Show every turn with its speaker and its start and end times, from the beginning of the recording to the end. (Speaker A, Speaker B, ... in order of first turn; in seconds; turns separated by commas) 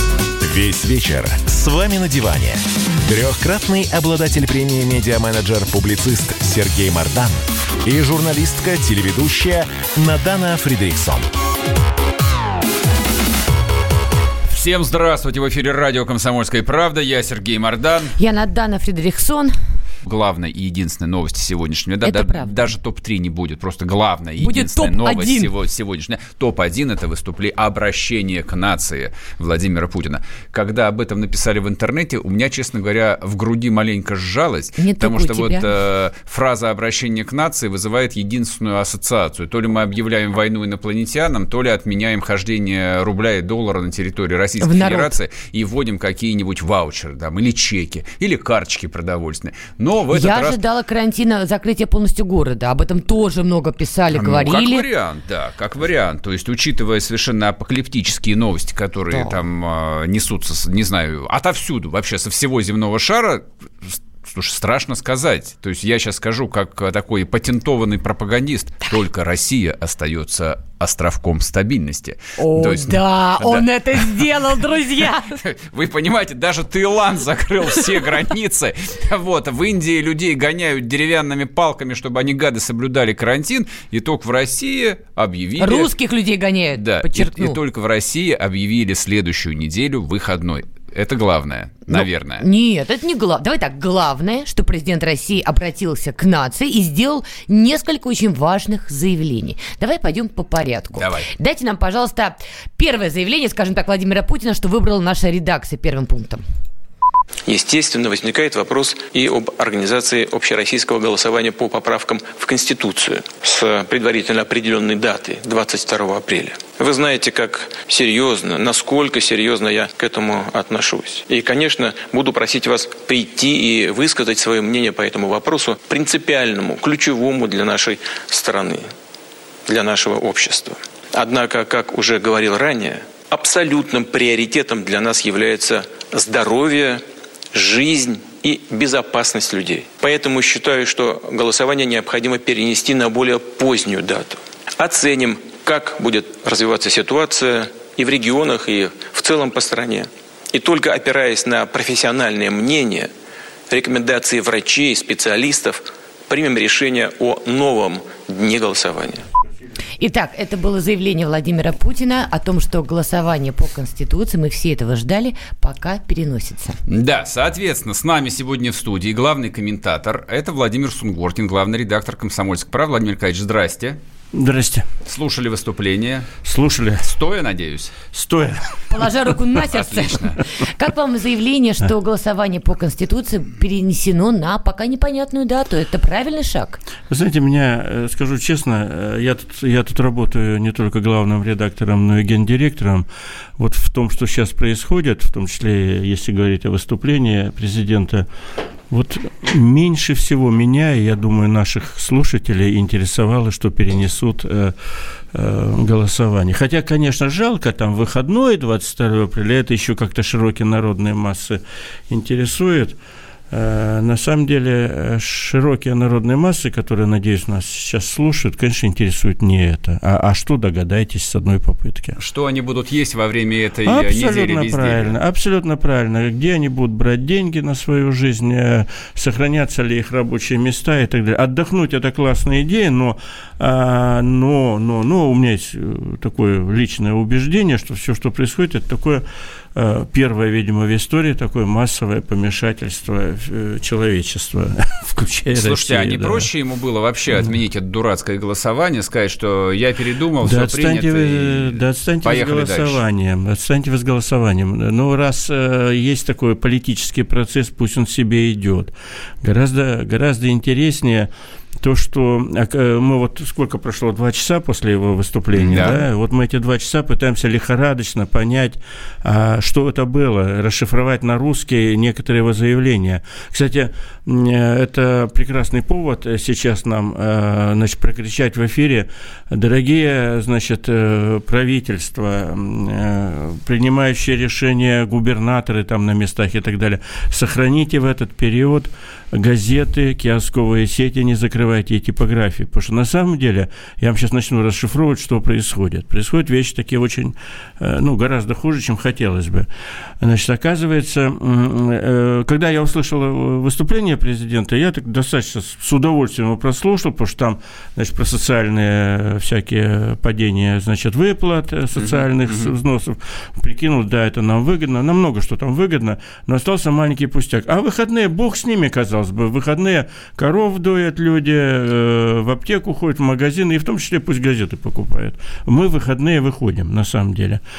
Speaker A: 0.4-11.3, Speaker B: 14.5-18.1, Speaker C: 18.2-19.5, Speaker B: 20.0-50.6, Speaker C: 22.0-22.7, Speaker C: 24.4-25.5, Speaker C: 34.8-35.7, Speaker C: 44.6-45.1, Speaker C: 50.1-54.8, Speaker B: 54.1-74.2, Speaker C: 59.1-59.4, Speaker C: 72.4-75.4, Speaker B: 75.3-85.9, Speaker C: 85.6-87.6, Speaker B: 86.7-92.4, Speaker C: 91.9-106.4, Speaker B: 101.0-101.3, Speaker D: 107.5-128.8, Speaker D: 129.7-153.1, Speaker D: 153.7-159.2, Speaker C: 160.0-166.8, Speaker B: 166.9-174.0, Speaker E: 174.3-174.9, Speaker B: 175.0-176.3, Speaker E: 176.4-177.1, Speaker B: 177.0-177.9, Speaker E: 178.1-178.6, Speaker C: 178.9-186.8, Speaker B: 179.6-180.4, Speaker E: 187.1-193.1, Speaker E: 193.6-198.3, Speaker E: 198.9-204.7, Speaker E: 205.3-213.0, Speaker E: 213.5-222.2, Speaker B: 222.2-225.1, Speaker E: 223.8-239.2, Speaker E: 239.7-246.5, Speaker B: 245.5-253.0, Speaker E: 250.4-261.3, Speaker E: 261.8-299.7, Speaker B: 265.5-266.0, Speaker E: 300.2-327.6, Speaker B: 311.9-312.7